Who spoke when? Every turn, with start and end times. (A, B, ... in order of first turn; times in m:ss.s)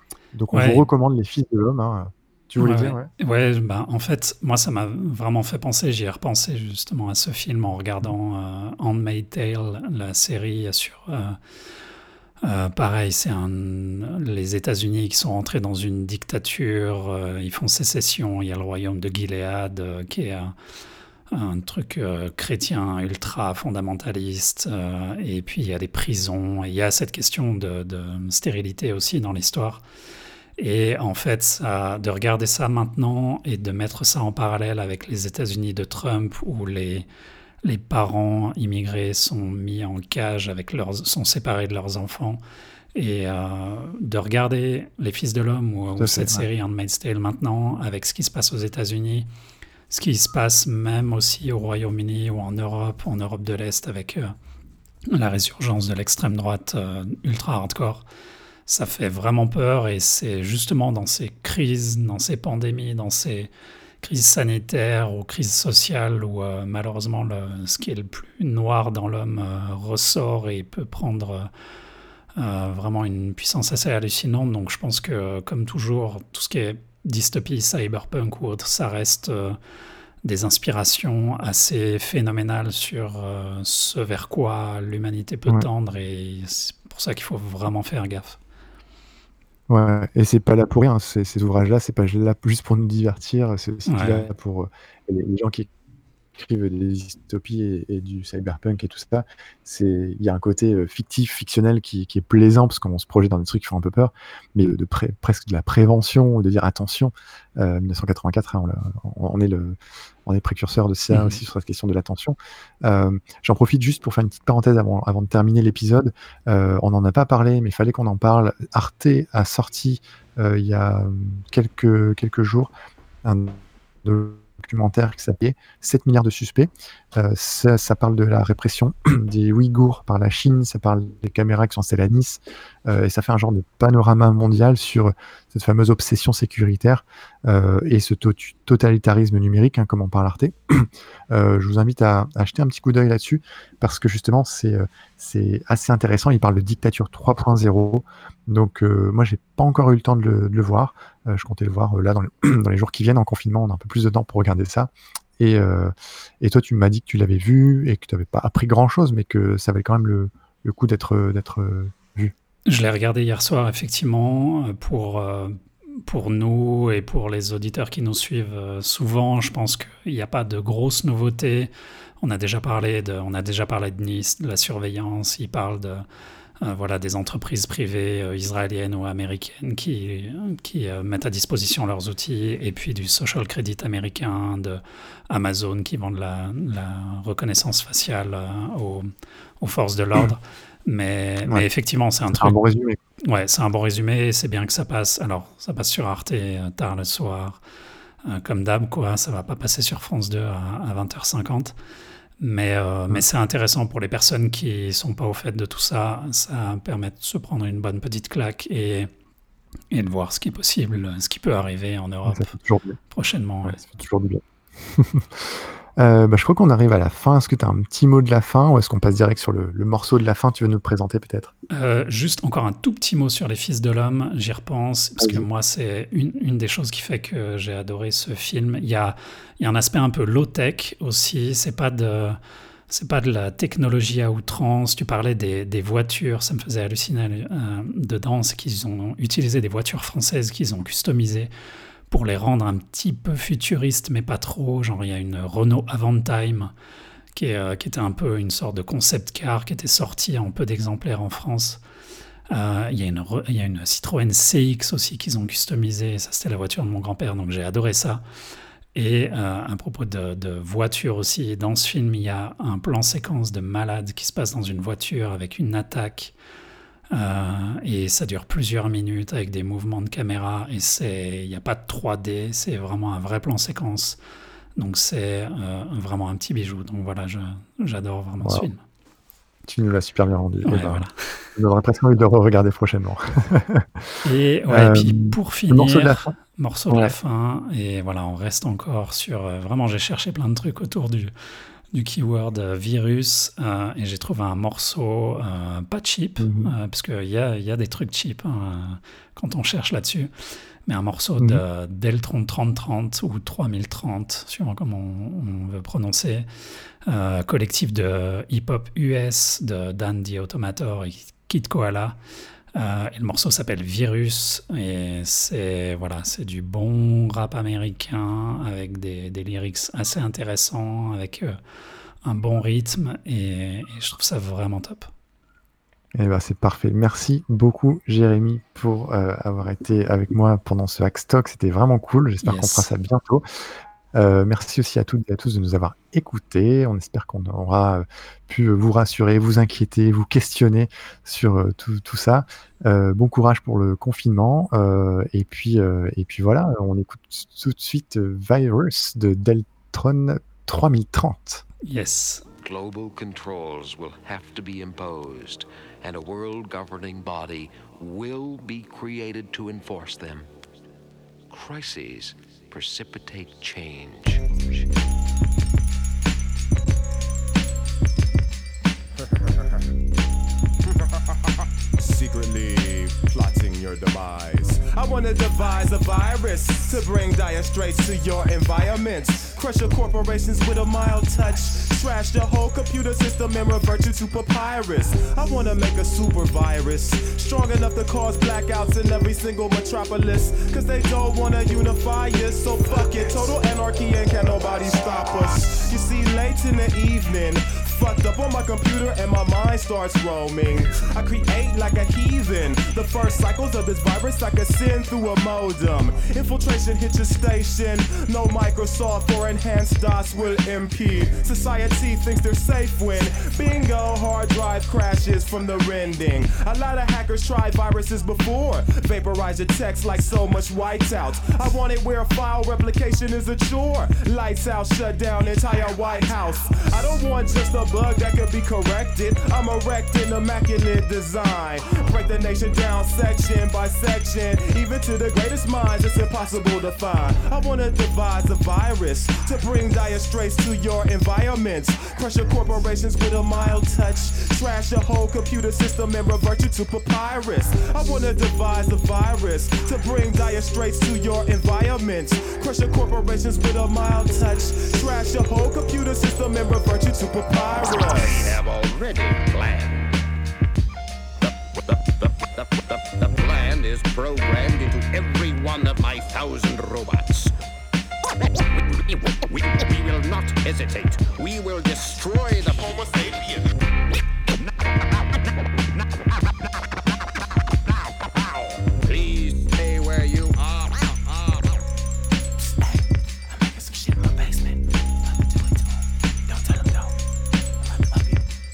0:00.3-0:03.1 A
0:00.5-0:00.9 B
0:02.6-0:11.4 B
0:12.4-0:20.6 B
0:21.3-0:29.8 B
0:30.6-0:37.0 B
0:37.6-0:42.4 B
0:42.9-0:49.3 B
0:46.0-0:46.4 A
0:49.9-0:54.3 B
0:55.1-0:58.0 B
0:58.7-1:03.5 B
1:04.0-1:11.5 B
1:12.4-1:19.6 B
1:20.2-1:28.4 B
1:29.7-1:35.7 A
1:33.9-1:34.3 B
1:36.3-2:02.7 A
1:51.1-1:51.4 B
2:03.2-2:42.3 A
2:42.7-2:56.0 B
2:56.6-3:12.6 B
3:12.3-3:13.0 A
3:13.2-3:17.6 B
3:18.2-3:21.7 B
3:22.4-3:29.1 B
3:29.9-3:32.5 B
3:32.2-3:33.0 A
3:33.1-3:33.8 B
3:33.6-3:41.5 A
3:41.7-3:52.4 B
3:45.2-3:45.4 A
3:52.9-4:01.5 B
4:02.1-4:06.7 B
4:07.3-4:11.8 B
4:12.5-4:18.2 B
4:18.9-4:26.3 B
4:27.1-4:34.2 B
4:34.8-4:38.8 B
4:38.4-4:38.7 A
4:39.6-4:44.2 A
4:40.6-4:41.5 B
4:44.2-4:51.3 B
4:44.7-4:46.3 A
4:46.9-4:47.1 A
4:51.9-5:00.3 B
4:56.4-4:56.7 A
5:00.8-5:06.5 B
5:07.0-5:12.2 B
5:12.7-5:21.6 B
5:22.2-5:25.1 B
5:26.1-5:33.6 A
5:32.4-5:32.9 B
5:34.1-5:51.6 A
5:51.8-5:52.4 B
5:52.6-6:00.5 C
6:01.5-6:04.9 C
6:09.4-6:09.6 D
6:12.0-7:38.6 D
7:38.0-7:40.2 E
7:41.4-7:47.5 E
7:48.4-7:53.2 E
7:52.7-7:53.6 D
7:54.5-8:01.8 E
8:03.7-8:04.8 D
8:06.5-8:07.1 D